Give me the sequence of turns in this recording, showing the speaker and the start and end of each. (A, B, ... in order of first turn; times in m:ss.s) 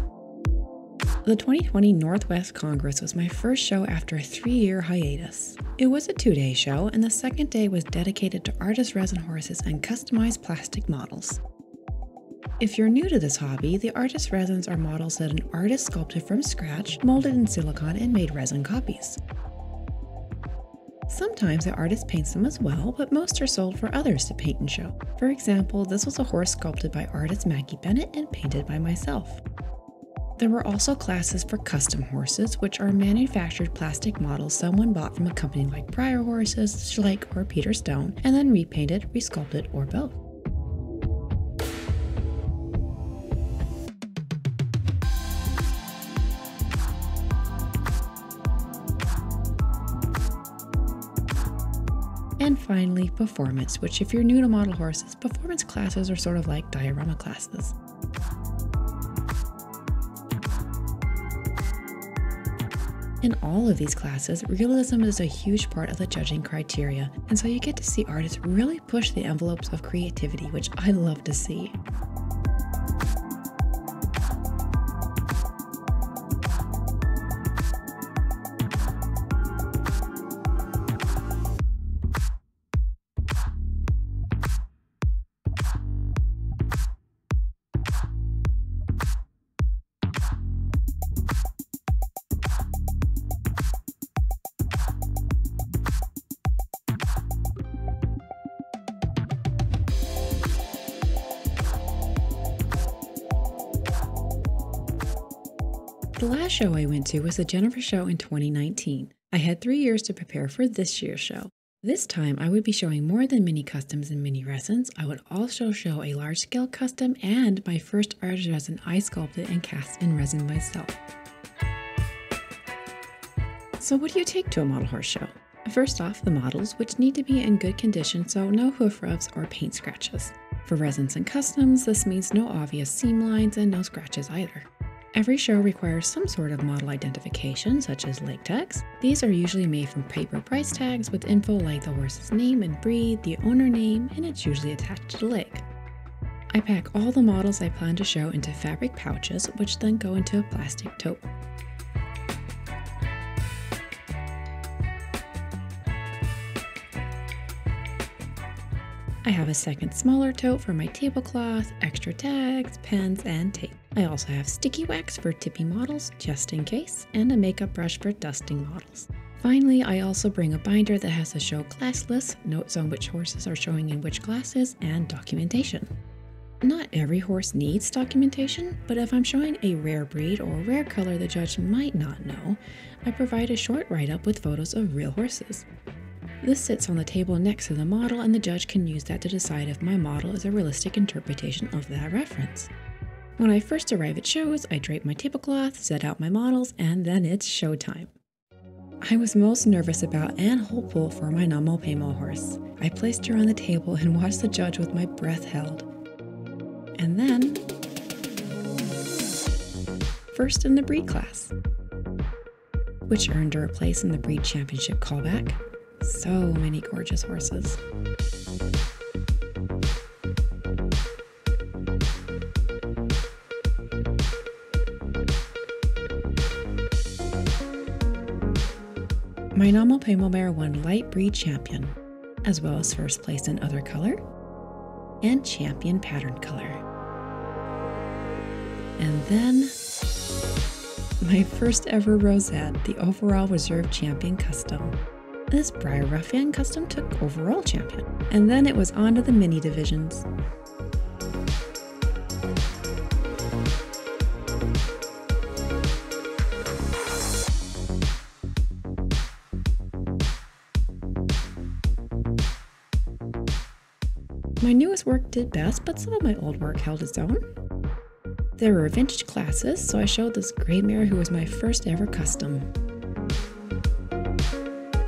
0:01.2-0:11.4 A
0:12.6-0:19.2 A
0:21.1-0:29.4 A
0:30.4-0:40.2 A
0:52.4-0:57.8 A
1:03.2-1:11.8 A
1:46.2-2:01.0 A
2:03.8-2:25.6 A
2:26.5-2:31.3 A
2:39.2-2:55.9 A
2:56.6-3:05.6 A
3:06.4-3:12.7 A
3:13.4-3:18.1 A
3:19.0-3:25.9 A
3:27.0-3:27.6 A
3:30.3-3:31.5 A
3:33.1-3:37.8 A
3:49.5-3:54.2 A
3:55.2-3:56.8 A
3:59.0-3:59.7 A
4:01.2-4:05.0 A
4:05.5-4:10.2 A
4:24.6-4:27.4 A
4:28.6-4:32.7 A